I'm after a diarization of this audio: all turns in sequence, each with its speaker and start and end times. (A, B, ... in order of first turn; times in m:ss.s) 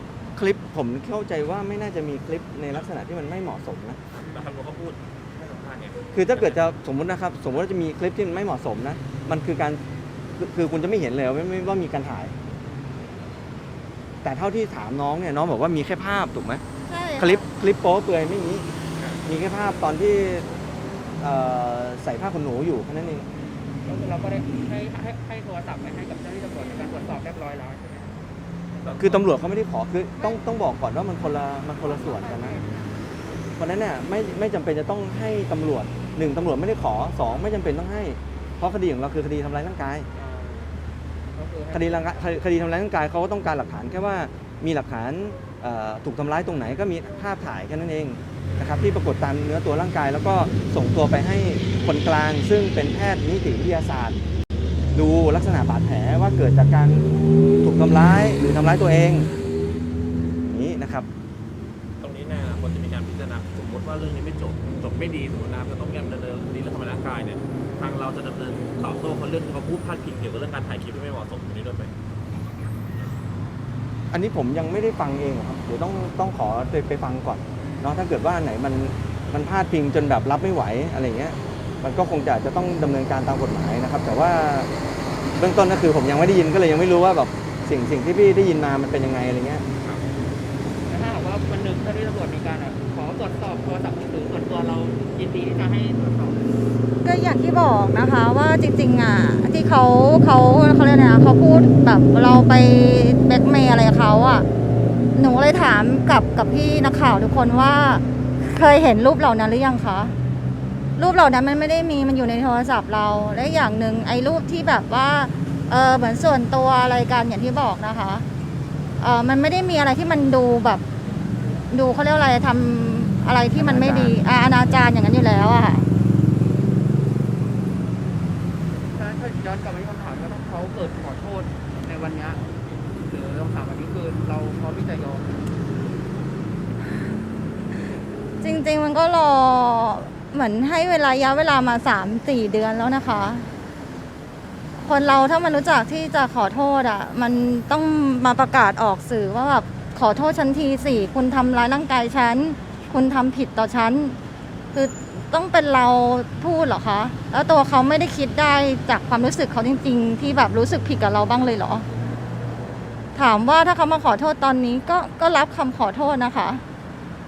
0:00.3-0:04.0 A
0:04.1-0:06.6 B
0:04.2-0:04.5 C
0:06.1-0:09.8 A
0:10.4-0:12.3 A
0:14.2-0:16.6 A
0:16.8-0:17.5 D
0:17.2-0:18.7 A
0:19.0-0:19.2 B
0:19.2-0:20.5 A
0:21.2-0:23.3 A
0:23.8-0:28.2 C
0:28.8-0:29.3 B
0:28.9-0:32.6 A
0:30.2-0:30.5 C
0:31.8-0:33.4 C
0:33.6-0:40.1 A
0:40.1-0:42.4 C
0:41.7-0:54.2 A
0:54.9-0:57.0 A
0:57.6-0:59.3 A
1:00.4-1:01.1 A
1:02.0-1:11.9 B
1:14.1-1:24.7 A
1:25.3-1:29.6 A
1:29.7-1:30.1 B
1:30.8-1:36.6 C
1:37.0-1:44.4 D
1:45.1-1:50.1 D
1:51.0-1:58.2 D
1:59.0-2:00.8 D
2:01.7-2:05.9 D
2:03.5-2:04.2 A
2:08.8-2:15.4 C
2:18.4-2:23.5 D
2:24.8-2:34.2 D
2:34.7-2:41.9 D
2:43.1-2:46.6 D